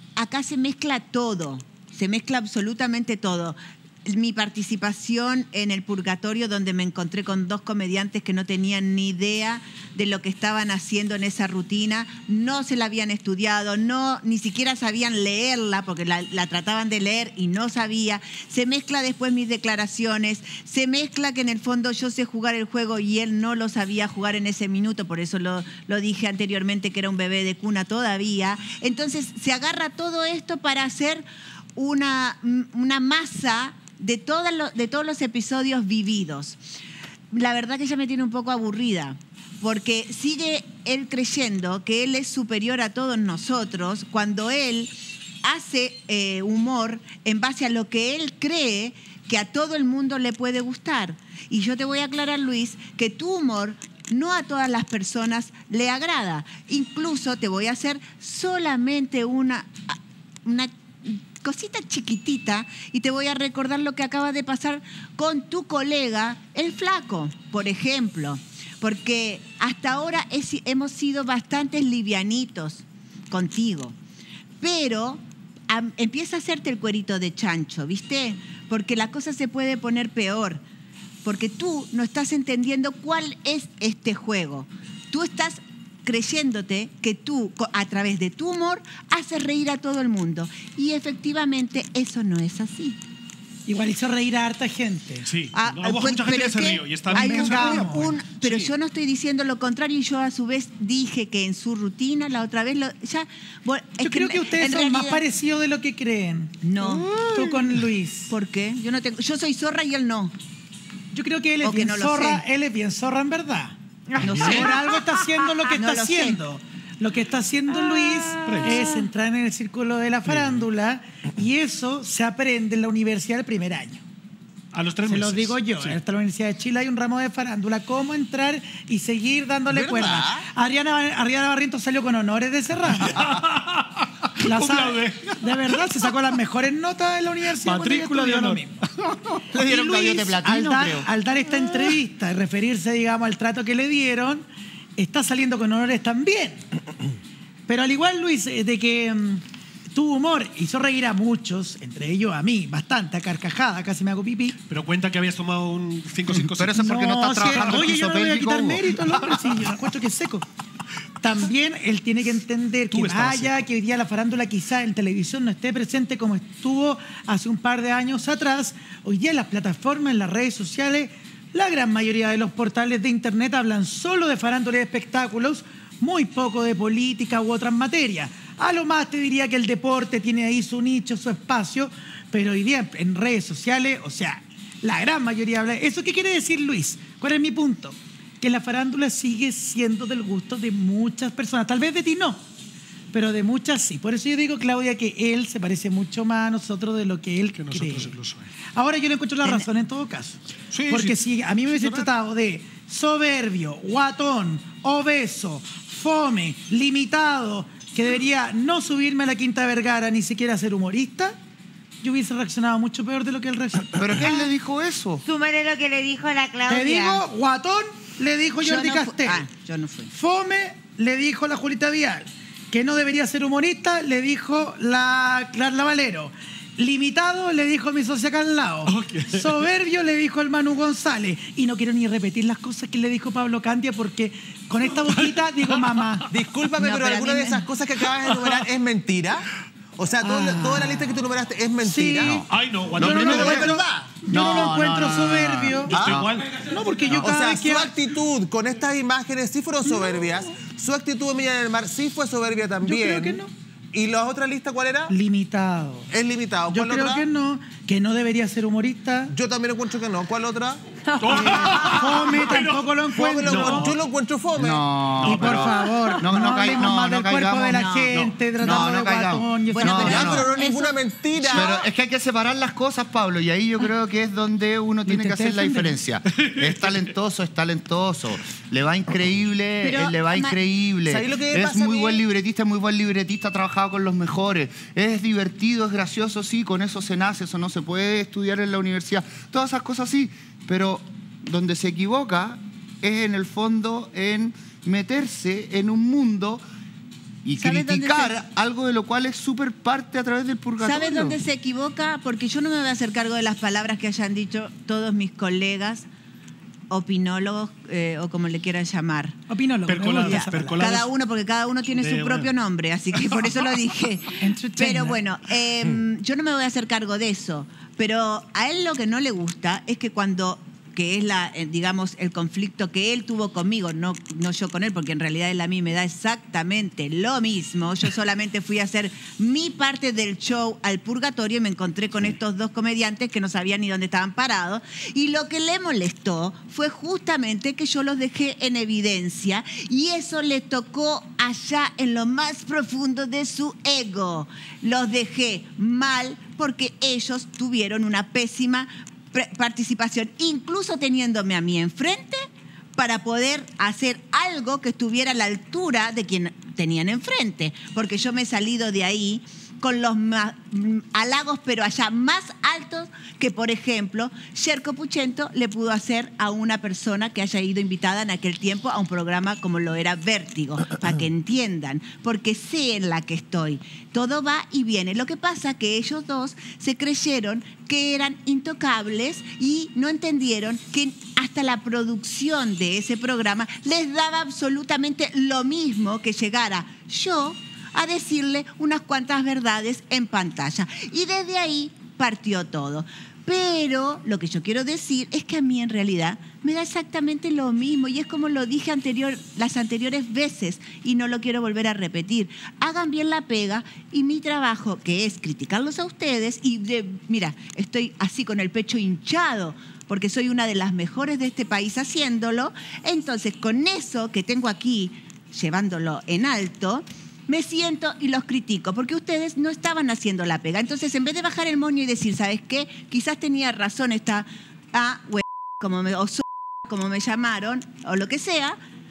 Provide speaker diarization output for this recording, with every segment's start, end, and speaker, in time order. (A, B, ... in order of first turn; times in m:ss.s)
0:00.2-0:36.6 A
0:37.3-1:14.0 A
1:14.6-1:20.6 A
1:21.2-1:33.0 A
1:33.7-1:35.3 B
1:35.2-1:38.7 C
1:35.5-1:45.2 A
1:37.1-1:38.1 B
1:44.0-1:48.3 B
1:46.6-1:47.1 A
1:48.3-1:50.3 A
1:51.1-1:53.7 B
1:51.6-1:52.4 A
1:54.2-1:54.8 A
1:54.2-2:04.0 B
1:54.3-1:54.6 C
1:54.9-1:55.7 D
1:55.7-1:56.4 A
1:57.7-1:59.0 D
1:58.4-1:58.8 C
2:00.3-2:00.6 C
2:04.7-2:06.0 C
2:05.1-2:13.3 B
2:09.7-2:10.5 E
2:13.0-2:16.1 C
2:14.4-2:18.8 B
2:17.6-2:18.7 C
2:19.6-2:21.1 F
2:19.6-2:24.4 B
2:25.0-2:26.6 B
2:27.7-2:29.4 B
2:30.0-2:34.6 B
2:34.7-2:36.9 C
2:36.3-2:38.9 F
2:36.8-2:40.4 B
2:37.5-2:37.9 C
2:41.2-3:12.4 B
2:42.9-2:43.6 C
3:13.1-3:18.1 B
3:17.6-3:18.5 C
3:18.7-3:31.4 B
3:19.4-3:19.7 A
3:20.7-3:22.1 C
3:32.0-3:34.3 B
3:34.0-3:35.2 F
3:35.3-3:37.3 D
3:36.7-3:39.5 B
3:38.6-3:40.1 A
3:40.1-3:56.2 B
3:48.9-3:49.6 C
3:54.9-3:56.2 C
3:56.3-3:59.5 E
3:56.8-3:57.6 A
3:58.2-3:58.6 C
4:00.0-4:02.4 E
4:00.2-4:01.1 B
4:01.8-4:02.4 B
4:02.4-4:03.7 C
4:03.0-4:06.0 B
4:03.0-4:03.7 F
4:03.3-4:04.2 E
4:04.3-4:06.3 F
4:05.9-4:06.2 E
4:05.9-4:06.7 C
4:06.6-4:08.0 B
4:07.2-4:15.1 E
4:12.8-4:13.5 B
4:15.1-4:16.1 B
4:16.1-4:17.3 E
4:16.7-4:19.3 B
4:19.3-4:20.8 E
4:21.2-4:22.9 C
4:21.3-4:23.9 B
4:23.1-4:24.9 E
4:23.4-4:24.0 C
4:24.6-4:27.8 F
4:25.2-4:30.0 B
4:25.2-4:25.5 C
4:27.7-4:28.2 A
4:28.5-4:30.5 F
4:29.7-4:31.9 A
4:30.0-4:31.8 E
4:31.5-4:56.6 F
4:35.1-4:36.0 B
4:39.8-4:40.6 A
4:41.1-4:42.2 E
4:57.4-5:01.4 F
4:57.6-4:58.4 A
5:00.8-5:06.1 A
5:06.9-5:09.4 A
5:09.5-5:10.8 B
5:09.9-5:11.1 C
5:10.0-7:08.8 A
5:11.9-5:12.5 C
5:14.4-5:15.2 B